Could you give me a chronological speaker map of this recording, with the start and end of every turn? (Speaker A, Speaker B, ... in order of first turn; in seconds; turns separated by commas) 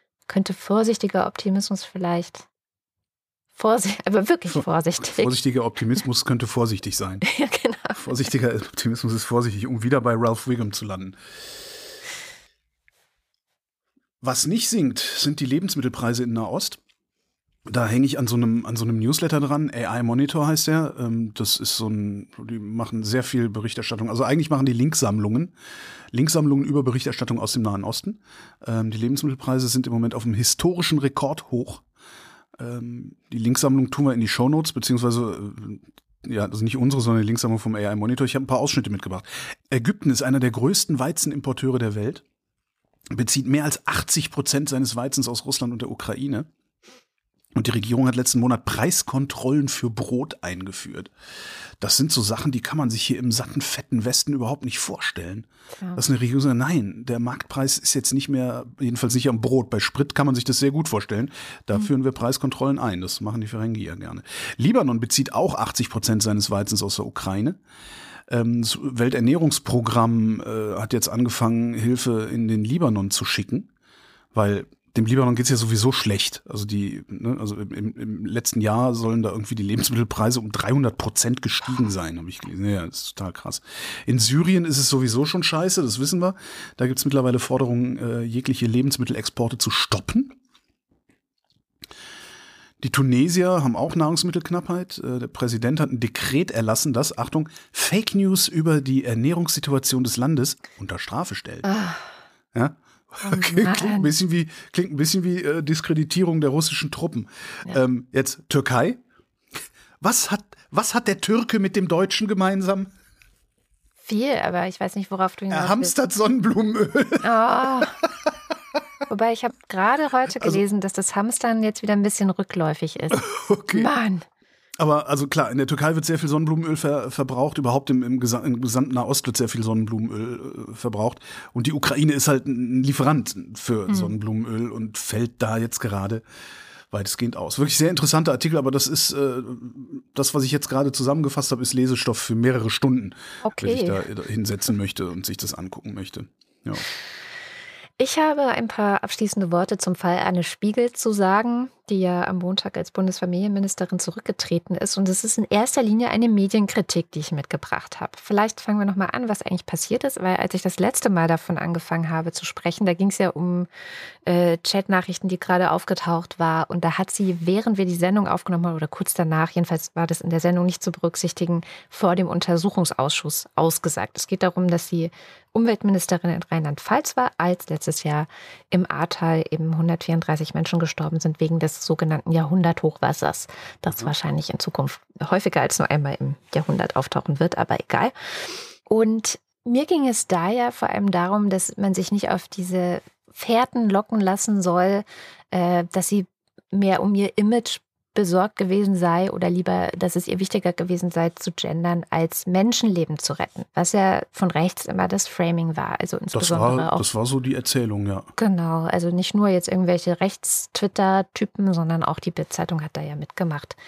Speaker A: 0.3-2.5, Speaker A: 3.6-5.4, Speaker B: 4.5-7.2, Speaker A: 7.2-8.0, Speaker B: 8.0-11.2, Speaker B: 14.2-16.8, Speaker B: 17.7-25.5, Speaker B: 26.1-31.8, Speaker B: 32.6-42.2, Speaker B: 43.1-46.5, Speaker B: 47.5-51.1, Speaker B: 51.8-67.6, Speaker B: 68.3-73.7, Speaker B: 74.3-90.4, Speaker B: 92.8-101.7, Speaker A: 101.6-102.1, Speaker B: 102.5-109.0, Speaker A: 103.2-104.1, Speaker B: 110.0-112.9, Speaker A: 114.0-115.9, Speaker B: 115.5-117.9, Speaker A: 117.2-118.0, Speaker A: 119.1-124.3, Speaker B: 123.1-123.9, Speaker B: 124.8-136.2, Speaker A: 133.9-134.1, Speaker B: 136.9-146.8, Speaker A: 143.4-144.0, Speaker A: 148.0-163.7, Speaker A: 164.2-188.1, Speaker B: 183.9-184.1, Speaker A: 188.9-207.1, Speaker B: 206.3-208.3, Speaker A: 208.4-213.8